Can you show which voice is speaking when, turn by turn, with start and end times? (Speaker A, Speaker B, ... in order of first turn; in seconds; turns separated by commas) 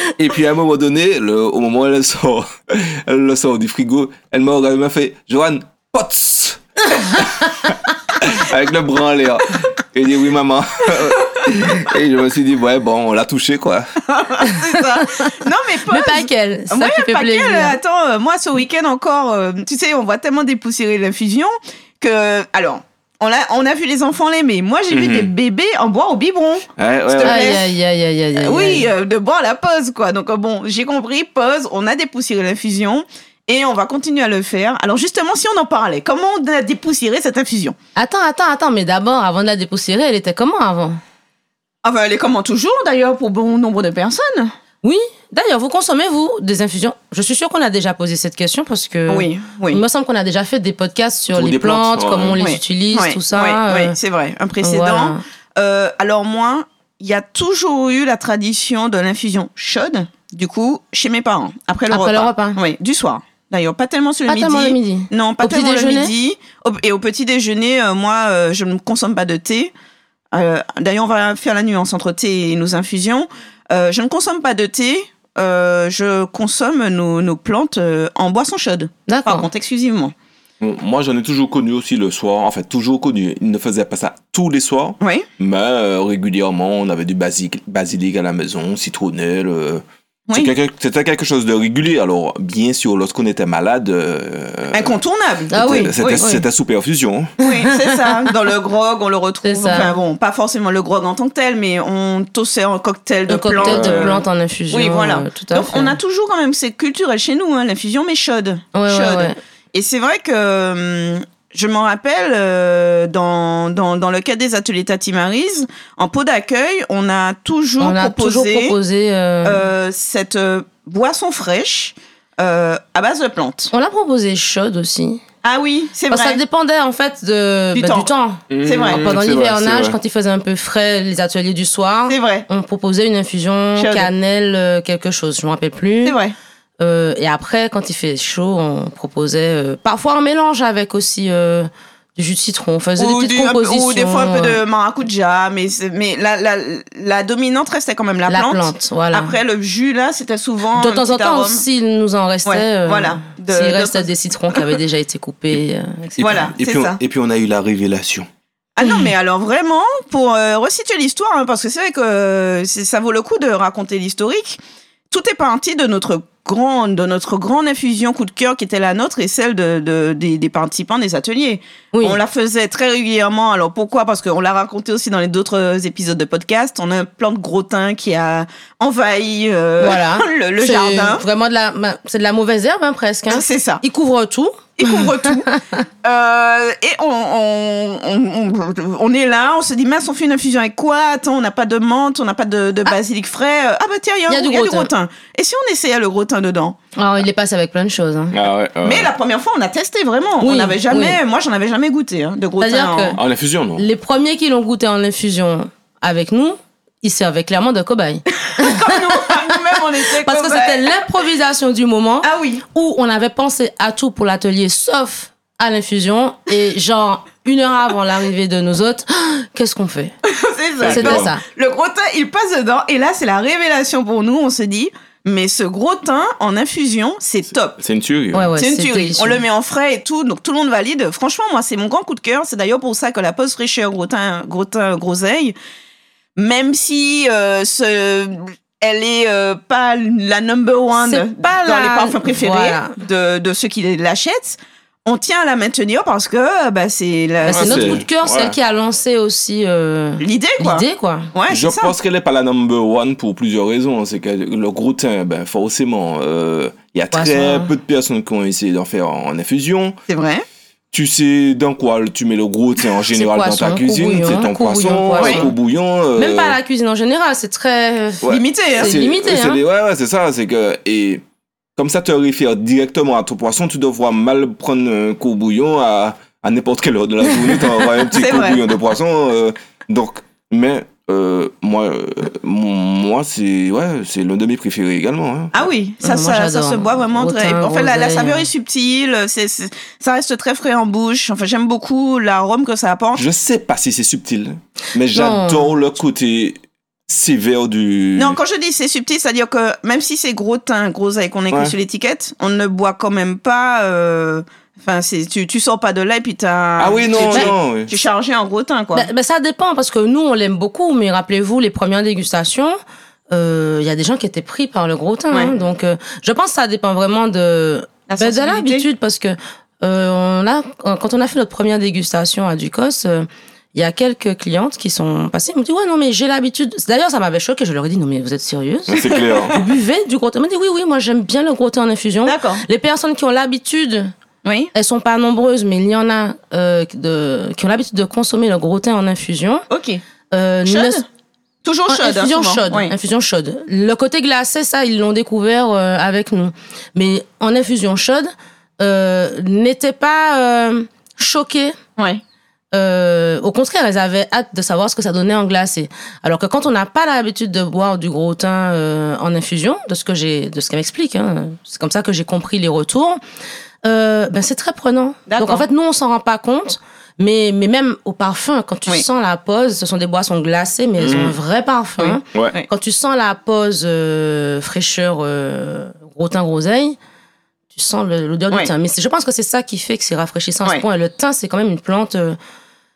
Speaker A: 0.2-13.9, Speaker B: 14.1-27.7, Speaker C: 14.4-17.8, Speaker A: 24.9-25.3, Speaker A: 26.8-27.6, Speaker C: 27.2-28.9, Speaker B: 28.4-37.8, Speaker C: 38.0-41.0, Speaker B: 41.8-44.5, Speaker C: 44.8-53.9, Speaker B: 49.1-49.8, Speaker A: 51.3-52.4, Speaker B: 52.4-69.7, Speaker C: 54.6-55.2, Speaker C: 61.9-62.6, Speaker C: 64.3-66.1, Speaker B: 70.3-80.1, Speaker C: 79.1-79.5, Speaker A: 80.6-94.9, Speaker B: 85.0-85.3, Speaker B: 94.7-96.2, Speaker C: 95.5-96.4, Speaker A: 95.5-97.3, Speaker B: 97.4-118.8, Speaker C: 97.4-98.2, Speaker C: 99.4-99.9, Speaker C: 103.3-106.0, Speaker A: 103.6-104.2, Speaker C: 108.7-109.4, Speaker C: 117.8-119.6, Speaker B: 119.4-123.7, Speaker C: 123.7-125.2, Speaker B: 125.4-126.4, Speaker C: 126.1-136.2, Speaker B: 127.7-128.1, Speaker A: 128.5-130.0, Speaker B: 128.6-129.0, Speaker B: 132.1-132.4, Speaker B: 133.8-134.1, Speaker B: 136.0-136.3, Speaker C: 136.8-144.6, Speaker B: 143.0-151.6, Speaker C: 148.3-149.3, Speaker C: 150.8-156.5, Speaker B: 152.4-154.8, Speaker A: 156.2-158.3, Speaker B: 156.2-157.0, Speaker B: 158.8-181.2, Speaker C: 158.8-159.1, Speaker C: 171.9-172.2, Speaker C: 179.8-185.8, Speaker B: 183.3-183.8, Speaker B: 184.8-185.5, Speaker B: 186.0-196.8, Speaker C: 194.3-194.9, Speaker C: 197.0-198.4, Speaker A: 198.3-199.1, Speaker B: 198.8-203.2, Speaker C: 200.4-201.2, Speaker C: 202.6-203.2, Speaker A: 203.2-203.8, Speaker C: 203.8-220.1, Speaker B: 208.4-210.8, Speaker B: 212.2-212.6, Speaker B: 220.3-227.8, Speaker A: 220.8-221.3, Speaker C: 220.8-221.4, Speaker A: 227.8-228.5, Speaker C: 228.3-229.4, Speaker B: 228.6-235.6, Speaker B: 236.3-248.0, Speaker C: 241.0-243.0, Speaker C: 247.4-251.3, Speaker A: 247.5-248.5, Speaker B: 250.2-251.9, Speaker A: 251.5-260.0, Speaker C: 257.1-257.7, Speaker B: 260.1-260.4, Speaker A: 260.9-266.6, Speaker C: 263.1-265.5, Speaker B: 265.2-265.4, Speaker C: 266.1-269.6, Speaker A: 268.2-271.2, Speaker B: 268.3-268.9, Speaker A: 271.8-285.7, Speaker B: 278.1-278.6, Speaker B: 285.5-293.2, Speaker C: 286.0-288.5, Speaker A: 293.1-298.4, Speaker C: 295.1-295.8, Speaker B: 298.2-309.1, Speaker A: 301.5-301.8, Speaker A: 306.8-307.9, Speaker C: 308.9-312.8, Speaker C: 313.3-334.1, Speaker B: 318.1-318.9, Speaker A: 328.9-329.6, Speaker B: 332.2-332.6, Speaker B: 334.4-334.7, Speaker C: 334.7-339.6, Speaker B: 339.7-340.0, Speaker C: 340.3-341.0, Speaker B: 340.7-341.0, Speaker B: 341.6-342.9, Speaker C: 341.9-351.8, Speaker C: 352.7-363.2, Speaker C: 363.8-377.0, Speaker B: 365.3-365.6, Speaker A: 371.0-371.4, Speaker B: 372.0-372.7, Speaker C: 377.7-382.4